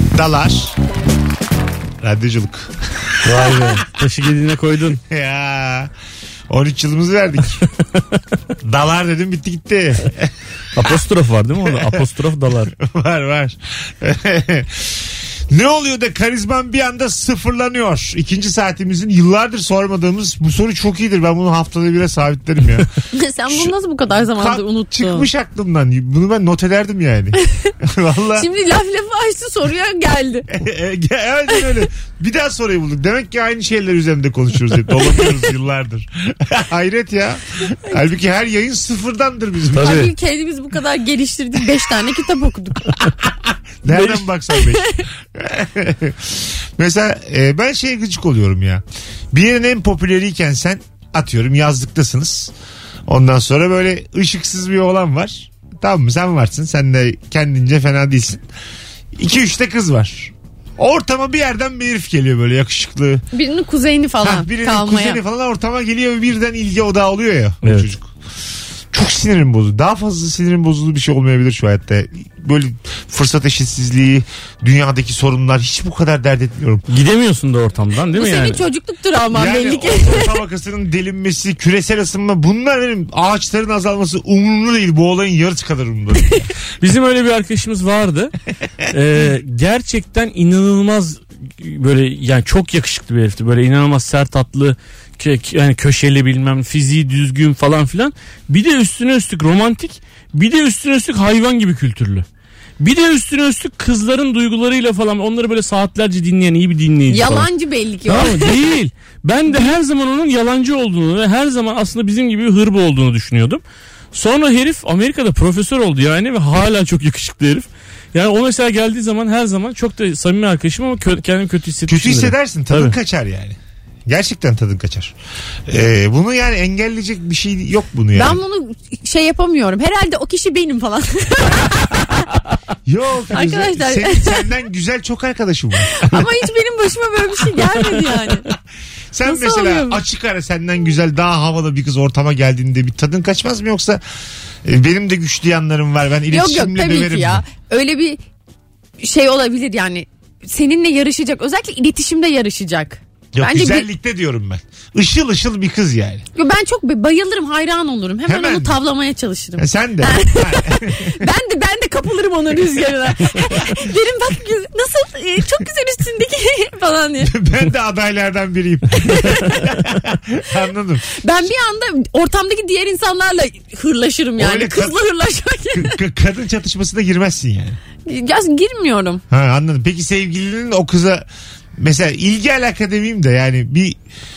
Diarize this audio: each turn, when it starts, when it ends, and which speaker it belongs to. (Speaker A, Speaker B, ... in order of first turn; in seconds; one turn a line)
Speaker A: 0.1-0.7
Speaker A: 2.0-3.8
Speaker B: 3.2-5.0
Speaker A: 5.0-5.9
Speaker A: 6.5-7.6
Speaker A: 8.6-10.3
Speaker B: 10.7-12.7
Speaker A: 11.6-12.0
Speaker A: 12.7-22.9
Speaker C: 23.1-25.3
Speaker A: 23.5-28.5
Speaker C: 27.4-27.7
Speaker C: 28.4-30.5
Speaker A: 30.5-40.1
Speaker B: 39.7-40.1
Speaker C: 39.8-42.9
Speaker A: 43.5-52.5
Speaker B: 43.9-44.3
Speaker C: 44.5-44.9
Speaker A: 53.1-58.4
Speaker A: 59.1-63.2
Speaker C: 63.3-65.2
Speaker A: 64.2-68.1
Speaker B: 67.6-67.9
Speaker A: 68.9-76.8
Speaker B: 76.9-78.6
Speaker C: 78.1-80.3
Speaker A: 79.3-86.5
Speaker B: 86.8-88.3
Speaker B: 88.9-102.2
Speaker B: 102.8-107.5
Speaker C: 107.1-108.5
Speaker B: 108.1-113.6
Speaker B: 114.1-123.0
Speaker A: 121.9-125.1
Speaker A: 125.7-128.4
Speaker C: 128.1-132.2
Speaker A: 132.8-136.3
Speaker C: 133.3-134.5
Speaker C: 135.8-138.5
Speaker A: 139.1-144.0
Speaker C: 139.2-140.0
Speaker A: 144.6-147.4
Speaker C: 146.3-148.2
Speaker C: 149.0-153.8
Speaker A: 153.3-156.2
Speaker C: 156.3-167.3
Speaker A: 158.2-158.8
Speaker A: 159.6-161.2
Speaker A: 167.2-171.1
Speaker C: 169.1-169.6
Speaker C: 171.1-175.9
Speaker A: 174.4-174.9
Speaker A: 175.7-177.8
Speaker C: 178.0-179.2
Speaker A: 179.3-181.2
Speaker A: 181.8-184.0